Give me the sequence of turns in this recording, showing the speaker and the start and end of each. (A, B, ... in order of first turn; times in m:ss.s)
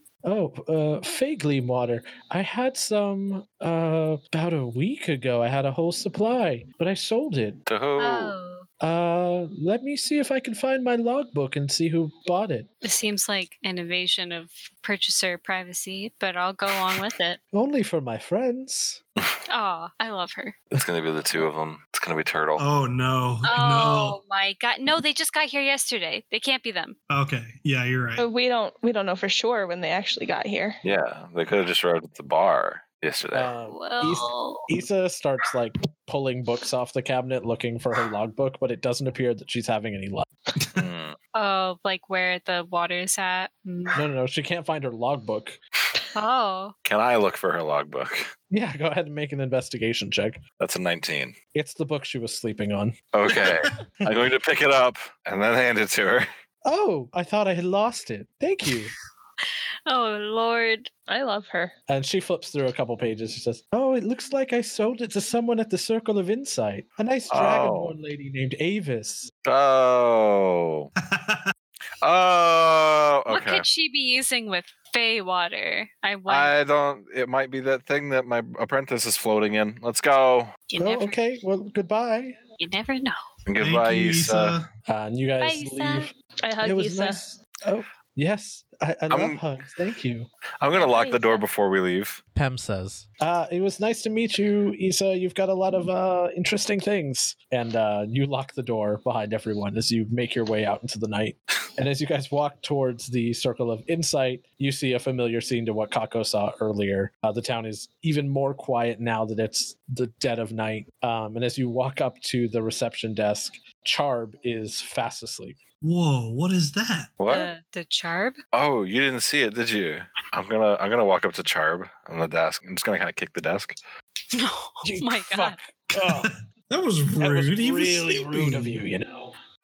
0:00.2-0:07.6 A
0:07.6-0:08.3 B
0:08.0-0:08.6 C
0:08.8-0:12.7 A
0:12.8-0:17.4 C
0:17.5-0:19.0 A
0:19.5-0:20.5 C
0:20.7-0:22.6 B
0:22.6-0:24.2 D
0:23.4-0:27.0 C
0:27.1-0:28.2 D
0:28.2-0:30.8 E
0:30.8-0:33.5 B
0:33.3-0:40.3 A
0:33.6-0:34.7 C
0:40.7-0:41.2 B
0:41.3-0:44.0 C
0:43.9-0:45.6 A
0:46.1-0:46.7 C
0:46.8-0:48.3 B
0:48.5-0:50.4 A
0:50.6-0:51.3 B
0:51.5-0:53.0 A
0:53.1-0:56.3 B
0:56.6-0:58.9 A
0:59.8-1:00.9 C
1:01.1-1:01.7 E
1:01.9-1:09.3 A
1:07.3-1:08.0 B
1:09.4-1:10.9 B
1:11.0-1:11.4 D
1:12.0-1:13.6 B
1:13.3-1:16.5 C
1:16.3-1:20.5 B
1:20.7-1:21.2 C
1:20.8-1:22.4 A
1:22.6-1:23.3 C
1:23.4-1:24.6 B
1:23.6-1:24.7 D
1:24.9-1:30.3 A
1:25.4-1:26.1 C
1:26.4-1:27.2 E
1:29.1-1:29.4 B
1:30.6-1:32.2 B
1:30.7-1:31.4 E
1:32.3-1:55.6 A
1:55.8-1:57.2 D
1:57.2-1:57.5 B
1:57.3-1:58.4 C
1:58.5-2:03.8 B
2:04.3-2:05.6 C
2:04.8-2:06.3 A
2:05.9-2:08.8 D
2:07.2-2:09.3 A